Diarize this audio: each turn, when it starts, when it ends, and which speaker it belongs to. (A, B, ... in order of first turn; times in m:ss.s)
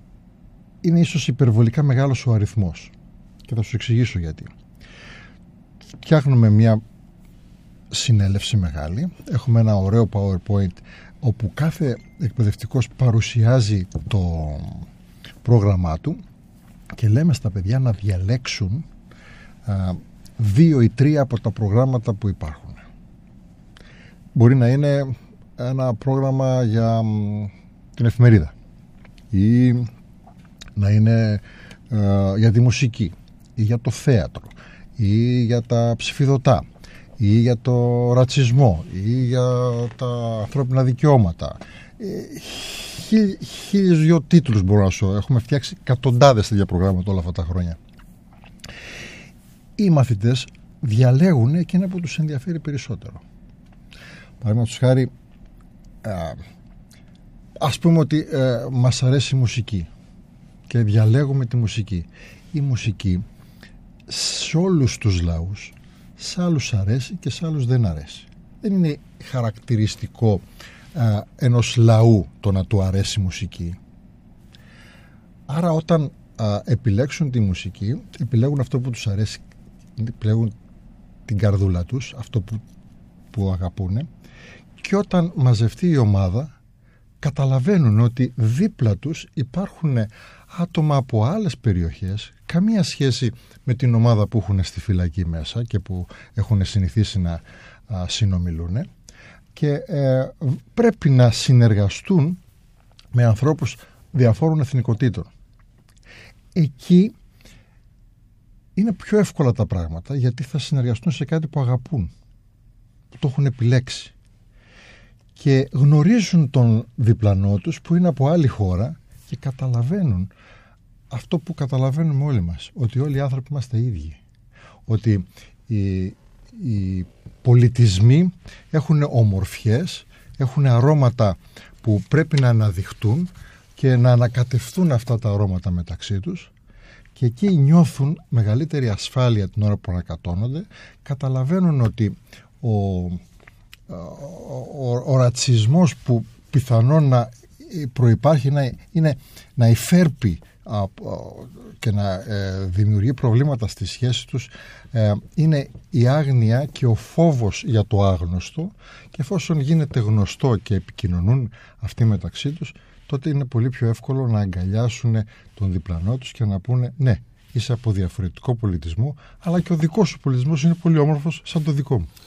0:00.8-0:02.9 A
0:03.4-0:04.5 A
0:06.0-0:06.8 A
0:07.9-0:14.9 A
0:15.4-0:16.2 A
0:16.9-0:18.9 A
0:19.6-0:22.8 A
0:24.3-0:28.5 A
0:29.3-0:29.9 A
0:30.8-0:36.6 A
0:37.2-0:47.8 A
0:49.8-0:53.2 A
0:54.4-0:55.1 A
0:56.0-0:56.4 A
0:57.6-0:59.9 A
1:00.7-1:03.2 A
1:04.1-1:13.8 A
1:15.5-1:19.4 A
1:20.0-1:20.5 A
1:21.3-1:22.6 A
1:23.3-1:24.1 A
1:24.8-1:26.5 A
1:27.2-1:38.9 A
1:39.5-1:42.4 A
1:43.1-1:45.3 A
1:46.5-1:47.1 A
1:48.8-1:52.1 A
1:53.1-1:54.1 A
1:55.4-2:00.3 A
2:01.1-2:04.2 A
2:04.8-2:16.5 A
2:17.2-2:23.2 A
2:23.9-2:52.1 A